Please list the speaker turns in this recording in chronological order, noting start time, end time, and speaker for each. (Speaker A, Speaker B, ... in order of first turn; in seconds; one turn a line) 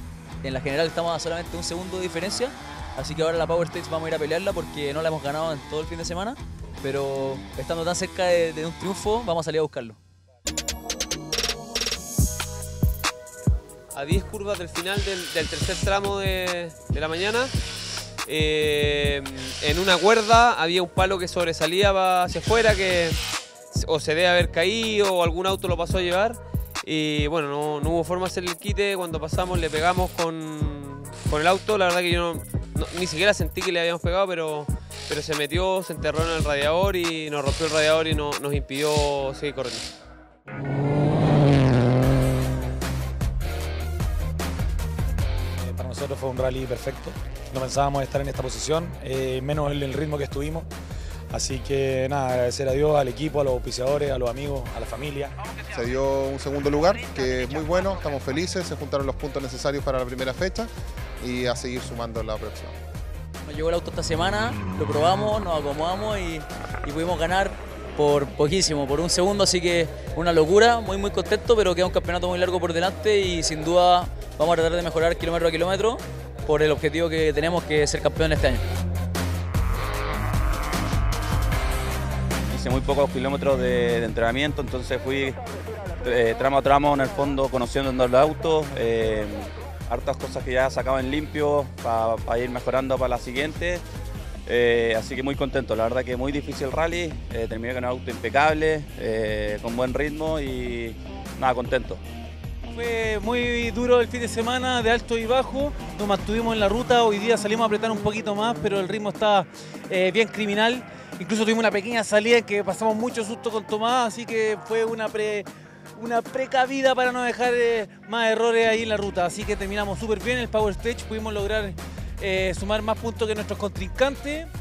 Speaker A: 0.4-10.0
Speaker B: 13.9-17.5
Speaker B: 18.2-23.2
Speaker B: 23.7-39.9
Speaker C: 45.6-50.7
Speaker C: 51.3-55.3
Speaker D: 55.7-62.8
Speaker A: 63.4-78.6
Speaker E: 82.5-85.4
Speaker E: 86.0-93.8
Speaker E: 94.5-102.0
Speaker F: 102.7-115.5
Speaker F: 116.0-124.5